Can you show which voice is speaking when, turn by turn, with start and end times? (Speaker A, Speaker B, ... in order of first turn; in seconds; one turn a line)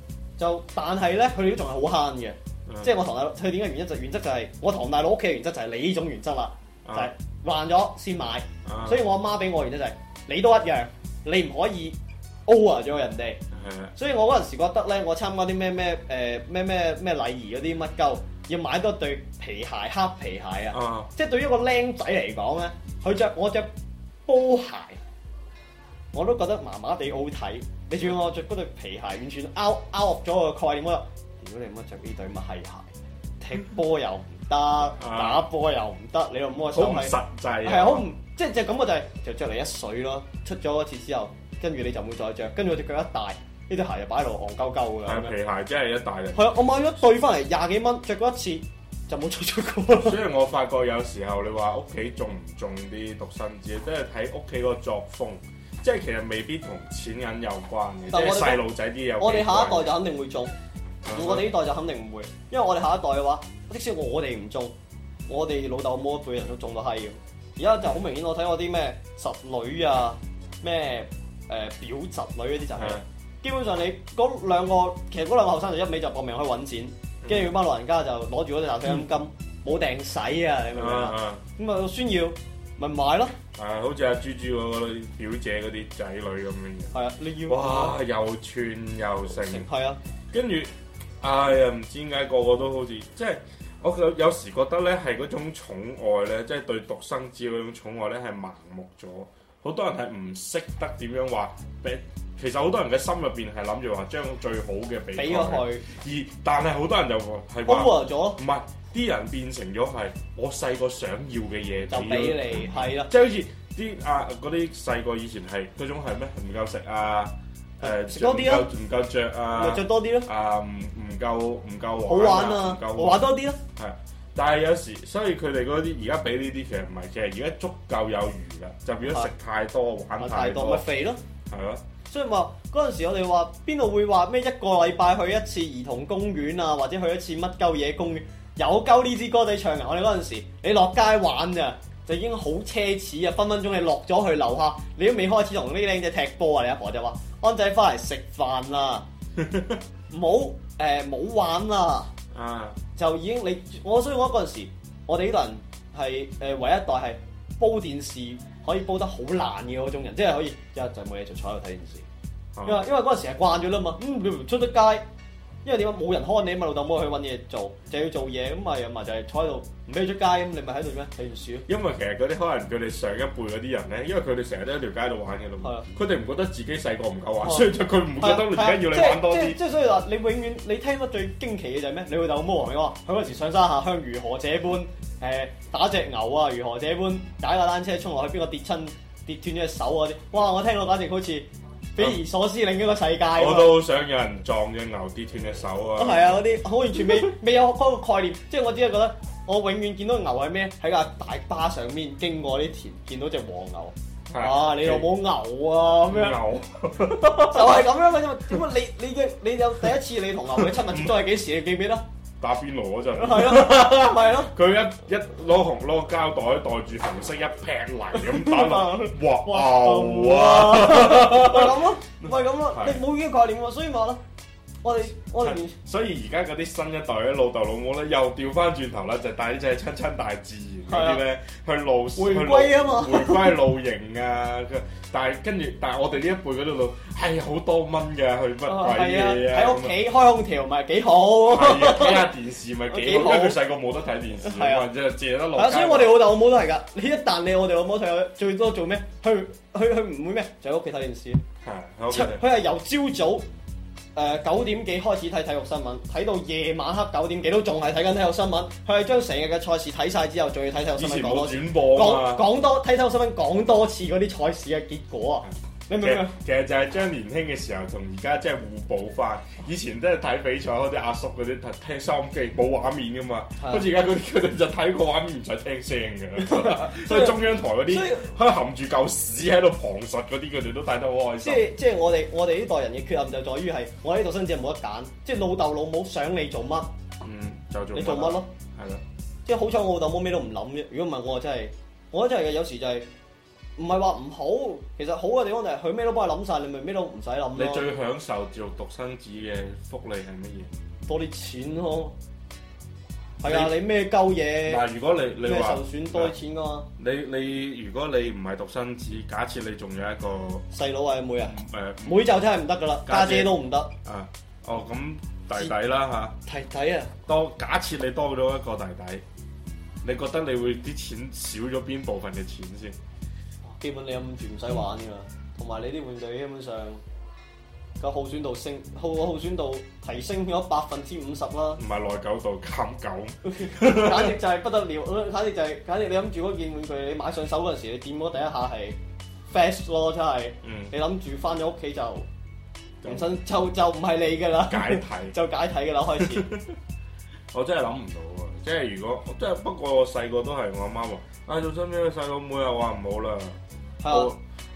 Speaker A: 0.4-13.4
Speaker B: 6.8-7.1
Speaker B: 8.6-9.0
Speaker B: 13.5-13.9
Speaker A: 13.9-23.7
Speaker B: 20.7-21.1
Speaker A: 24.2-25.0
Speaker A: 26.1-32.9
Speaker A: 33.4-45.3
Speaker B: 34.9-35.4
Speaker B: 36.7-38.1
Speaker B: 45.0-46.5
Speaker A: 46.3-50.2
Speaker B: 49.9-59.9
Speaker A: 58.1-58.6
Speaker A: 59.2-60.5
Speaker B: 61.0-61.5
Speaker A: 61.1-64.7
Speaker A: 65.3-83.3
Speaker B: 72.8-73.0
Speaker B: 77.2-77.5
Speaker B: 80.7-81.5
Speaker B: 83.5-89.7
Speaker A: 86.9-88.0
Speaker A: 89.3-90.0
Speaker B: 90.3-130.8
Speaker A: 105.2-105.9
Speaker A: 107.7-108.4
Speaker A: 111.9-113.1
Speaker A: 117.8-118.7
Speaker A: 119.5-120.3
Speaker A: 122.1-123.6
Speaker A: 129.0-129.3
Speaker A: 130.2-131.2
Speaker B: 131.5-131.8
Speaker A: 132.1-149.1
Speaker B: 149.4-149.8
Speaker A: 150.1-152.1
Speaker B: 152.3-152.8
Speaker A: 152.9-162.1
Speaker B: 162.6-162.8
Speaker A: 162.6-165.0
Speaker A: 165.6-171.7
Speaker B: 171.7-179.6
Speaker A: 175.6-175.9
Speaker A: 177.4-193.8
Speaker B: 193.3-196.4
Speaker A: 195.9-206.4
Speaker B: 204.3-205.1
Speaker B: 206.1-207.8
Speaker A: 207.3-212.0
Speaker B: 210.7-211.2
Speaker B: 212.4-223.0
Speaker A: 213.1-214.5
Speaker A: 218.2-224.2
Speaker A: 224.8-225.8
Speaker B: 225.3-240.0
Speaker A: 230.9-231.2
Speaker A: 232.2-233.6
Speaker A: 238.7-242.2
Speaker B: 241.4-246.3
Speaker A: 242.9-243.6
Speaker A: 244.4-244.9
Speaker A: 245.5-251.4
Speaker B: 251.6-252.4
Speaker A: 252.1-253.4
Speaker A: 254.1-266.4
Speaker B: 260.9-262.5
Speaker B: 265.4-281.7
Speaker A: 273.6-273.8
Speaker A: 276.4-278.2
Speaker A: 281.4-286.9
Speaker B: 287.2-289.0
Speaker A: 287.9-288.5
Speaker A: 289.4-293.1
Speaker A: 293.8-297.9
Speaker B: 297.5-300.8
Speaker A: 301.1-302.1
Speaker A: 303.4-304.8
Speaker B: 303.4-303.8
Speaker B: 304.6-306.3
Speaker A: 305.4-306.9
Speaker B: 307.0-310.6
Speaker A: 310.7-313.9
Speaker B: 311.4-312.3
Speaker B: 313.1-316.4
Speaker A: 316.4-317.2
Speaker B: 317.2-319.2
Speaker B: 320.0-323.0
Speaker A: 323.7-327.0
Speaker A: 328.0-331.8
Speaker B: 331.8-334.3
Speaker A: 333.4-339.0
Speaker A: 339.5-342.3
Speaker B: 340.6-340.9
Speaker B: 343.0-343.3
Speaker A: 343.0-346.4
Speaker B: 344.7-345.4
Speaker B: 346.3-346.8
Speaker B: 347.5-354.4
Speaker A: 354.0-354.3